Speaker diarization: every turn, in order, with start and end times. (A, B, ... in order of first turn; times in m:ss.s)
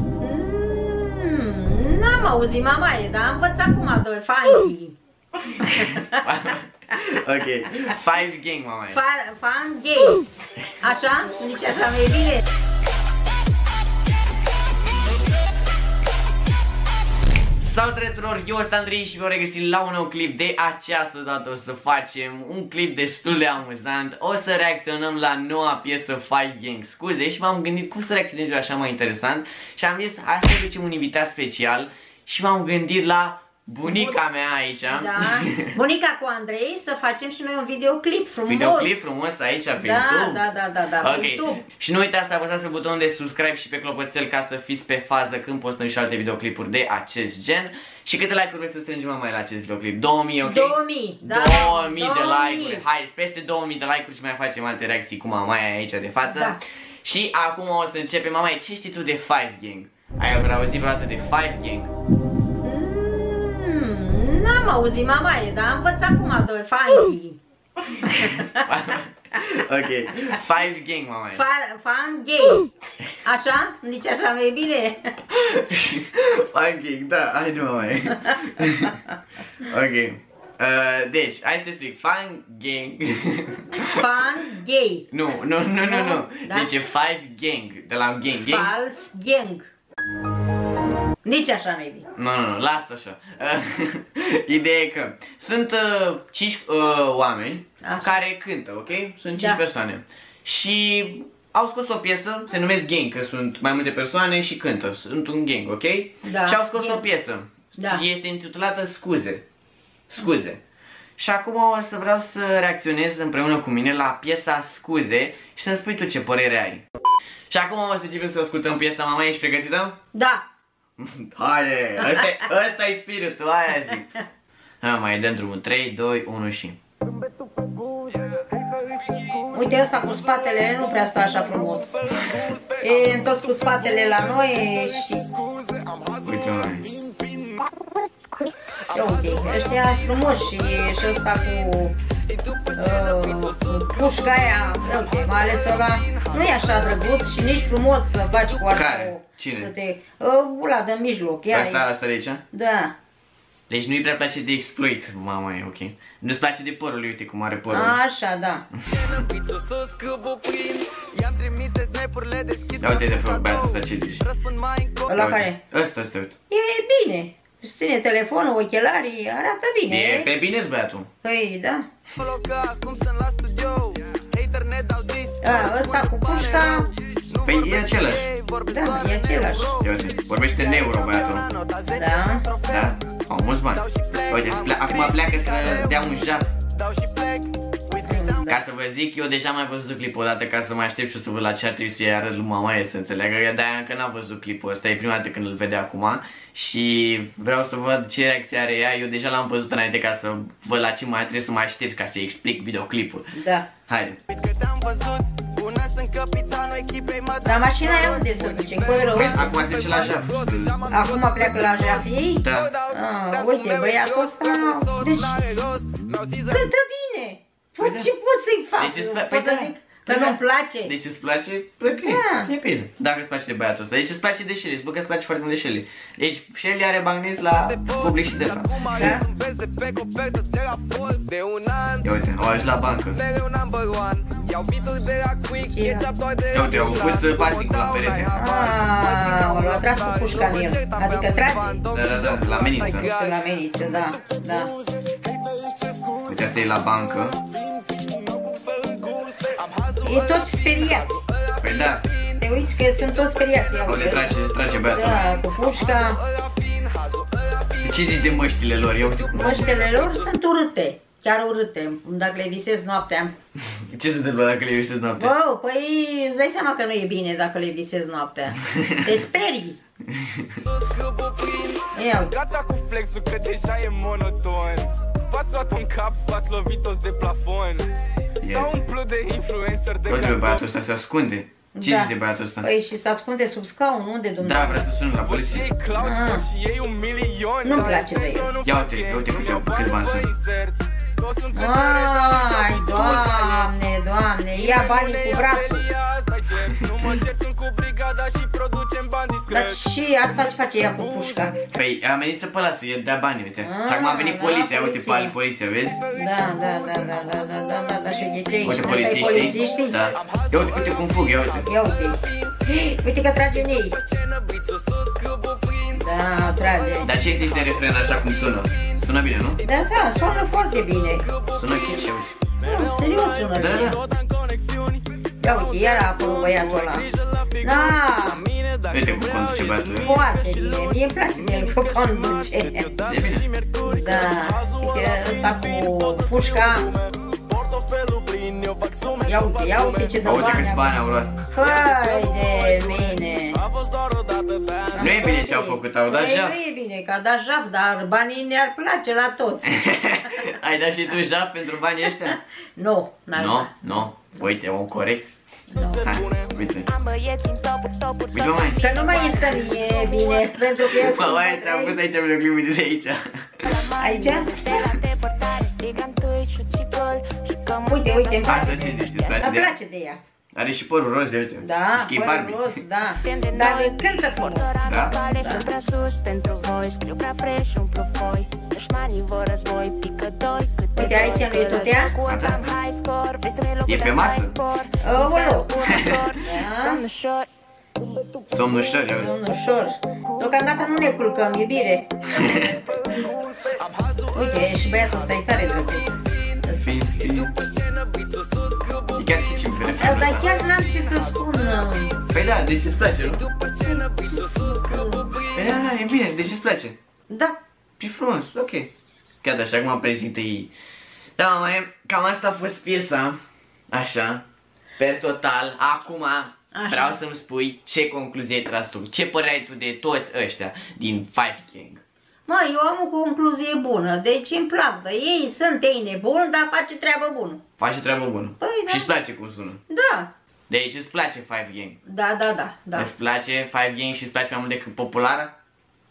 0:00.2-0:05.0 A
0:05.6-0:06.2 A
0:05.6-0:09.0 B
0:08.9-0:10.2 A
0:10.8-0:12.4 A
0:17.6-0:35.8 B
0:33.8-0:34.2 A
0:34.9-0:39.1 A
0:38.5-0:40.4 B
0:39.8-0:41.6 A
0:41.0-1:01.9 B
0:50.4-0:52.8 A
0:56.3-0:56.6 A
1:02.6-1:07.4 A
1:08.0-1:11.4 B
1:08.1-1:08.6 A
1:11.3-1:12.7 A
1:13.2-1:15.2 A
1:15.3-1:19.0 B
1:19.6-1:24.1 B
1:23.8-1:25.1 A
1:25.1-1:28.8 B
1:25.8-1:26.7 A
1:28.4-1:29.7 A
1:31.2-1:32.1 A
1:32.2-1:49.4 B
1:37.8-1:38.1 A
1:46.2-1:47.0 A
1:47.8-1:48.0 A
1:50.1-1:50.6 B
1:51.2-1:56.8 B
1:57.5-2:00.0 B
2:00.1-2:00.4 A
2:01.0-2:04.2 B
2:02.0-2:02.3 A
2:04.8-2:06.8 B
2:08.0-2:09.6 C
2:09.5-2:12.0 A
2:11.9-2:14.2 C
2:12.8-2:15.3 A
2:15.2-2:17.6 C
2:16.2-2:16.9 B
2:18.9-2:22.0 A
2:18.9-2:20.1 C
2:22.4-2:24.4 C
2:22.8-2:31.8 A
2:25.0-2:26.7 C
2:28.7-2:29.7 B
2:31.5-2:32.4 B
2:32.5-2:32.9 A
2:33.7-2:38.0 B
2:37.7-2:38.7 A
2:38.9-2:45.1 C
2:42.8-2:44.3 B
2:45.1-2:45.6 A
2:45.1-2:46.3 B
2:46.5-2:50.3 A
2:49.9-2:51.1 B
2:51.2-2:51.8 A
2:52.2-2:59.9 C
2:55.4-2:56.9 A
2:57.4-2:58.3 B
2:58.7-2:59.8 A
2:59.8-3:01.5 B
3:00.8-3:02.8 C
3:01.9-3:02.5 A
3:02.7-3:06.5 B
3:03.9-3:06.1 C
3:06.7-3:08.4 C
3:08.0-3:08.6 A
3:08.5-3:23.3 B
3:23.4-3:23.7 A
3:23.9-3:24.2 B
3:24.3-3:36.6 C
3:27.4-3:29.5 A
3:29.1-3:30.8 B
3:30.9-3:35.4 A
3:32.4-3:32.8 B
3:36.5-3:40.9 A
3:37.8-3:38.1 B
3:38.8-3:49.2 B
3:42.0-3:42.5 A
3:47.7-3:52.0 C
3:49.0-3:49.3 A
3:52.0-3:53.2 B
3:53.3-4:03.3 C
3:55.6-3:56.1 A
3:56.5-3:58.4 B
3:58.3-4:01.8 A
4:01.9-4:03.1 B
4:03.0-4:04.7 A
4:05.0-4:06.3 C
4:06.3-4:07.4 B
4:07.4-4:12.4 C
4:10.0-4:11.2 A
4:11.6-4:12.0 B
4:12.4-4:16.2 A
4:13.2-4:14.8 C
4:13.8-4:15.3 B
4:15.8-4:17.7 C
4:17.8-4:19.7 B
4:19.3-4:23.3 A
4:23.9-4:25.3 B
4:25.2-4:29.8 A
4:28.7-4:29.1 B
4:30.1-4:30.6 B
4:30.7-4:37.9 C
4:32.0-4:32.4 A
4:38.4-4:38.8 B
4:38.5-4:40.6 C
4:40.1-4:42.7 B
4:41.8-4:44.8 A
4:44.4-4:45.7 B
4:45.3-4:53.6 C
4:45.9-4:46.4 A
4:47.6-4:48.6 A
4:48.6-4:50.3 B
4:51.5-4:55.9 A
4:54.6-4:59.7 C
4:59.5-5:01.6 A
5:01.7-5:06.0 B
5:03.6-5:05.3 A
5:06.1-5:07.4 C
5:06.1-5:10.0 A
5:08.6-5:11.7 B
5:10.2-5:10.9 C
5:11.7-5:14.0 A
5:12.3-5:12.7 C
5:14.0-5:16.0 C
5:15.9-5:17.1 A
5:17.0-5:19.6 B
5:17.3-5:17.8 C
5:19.6-5:21.7 C
5:19.6-5:21.3 A
5:21.6-5:22.4 B
5:22.6-5:24.0 A
5:22.6-5:27.7 C
5:23.5-5:24.0 B
5:25.4-5:28.5 A
5:28.3-5:40.1 C
5:28.9-5:30.1 B
5:29.9-5:33.0 A
5:33.0-5:33.5 B
5:33.8-5:37.0 A
5:39.3-5:40.9 A
5:40.2-5:41.4 B
5:41.4-5:43.6 A
5:41.7-5:45.0 C
5:44.9-5:50.5 A
5:45.0-5:46.6 B
5:49.7-5:52.4 B
5:52.8-5:53.7 A
5:53.3-5:55.4 B
5:55.7-5:56.0 A
5:55.8-5:56.5 C
5:56.0-5:56.9 B
5:56.9-6:00.6 D
5:58.3-5:58.8 B
5:58.8-6:02.0 A
6:00.8-6:03.7 B
6:03.7-6:09.4 D
6:04.0-6:04.5 A
6:07.8-6:10.2 A
6:08.4-6:09.7 B
6:10.5-6:12.8 B
6:11.6-6:15.7 A
6:13.2-6:27.5 D
6:14.8-6:15.2 B
6:21.0-6:22.2 A
6:22.2-6:22.7 B
6:23.8-6:24.6 B
6:25.0-6:25.8 A
6:25.9-6:26.2 B
6:26.4-6:27.0 A
6:28.5-6:29.3 B
6:29.1-6:32.1 A
6:32.3-6:32.9 B
6:33.1-6:36.6 C
6:34.3-6:36.9 A
6:36.8-6:37.6 B
6:37.2-6:40.0 C
6:39.2-6:40.5 B
6:39.9-6:42.2 A
6:40.8-6:41.8 C
6:42.3-6:43.4 B
6:43.5-6:45.6 C
6:44.8-6:45.3 A
6:45.5-6:47.0 B
6:47.3-6:47.6 A
6:48.0-6:48.9 B
6:49.4-6:50.7 B
6:51.4-6:53.4 B
6:53.9-6:54.4 B
6:55.0-7:02.0 B
6:56.7-6:57.2 A
7:02.5-7:07.6 A
7:07.8-7:09.8 B
7:08.6-7:09.1 A
7:09.9-7:10.3 A
7:10.7-7:12.0 B
7:12.0-7:13.1 A
7:13.0-7:15.5 B